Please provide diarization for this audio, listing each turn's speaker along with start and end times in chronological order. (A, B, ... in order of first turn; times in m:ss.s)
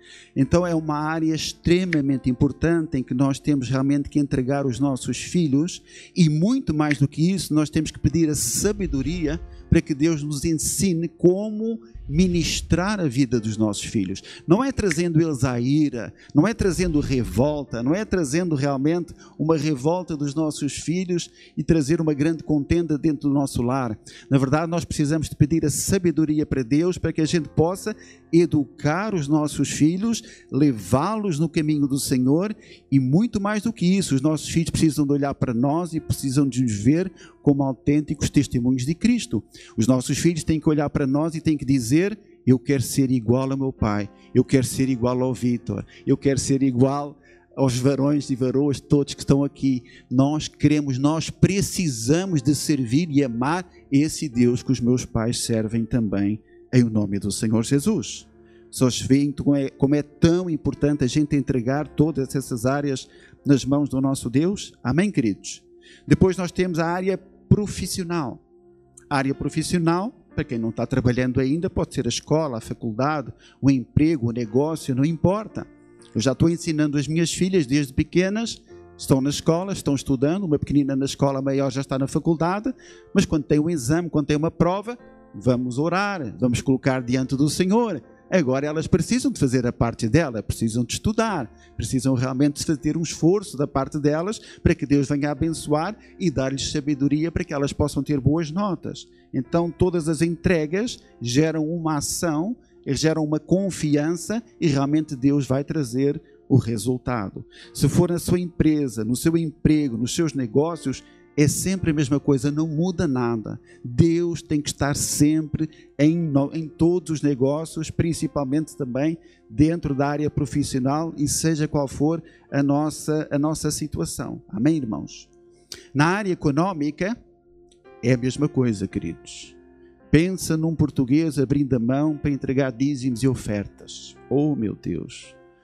0:00.4-1:08.4 A
1:09.1-2:05.3 A
2:05.9-2:07.1 A
2:08.0-2:09.5 A
2:10.1-2:15.3 A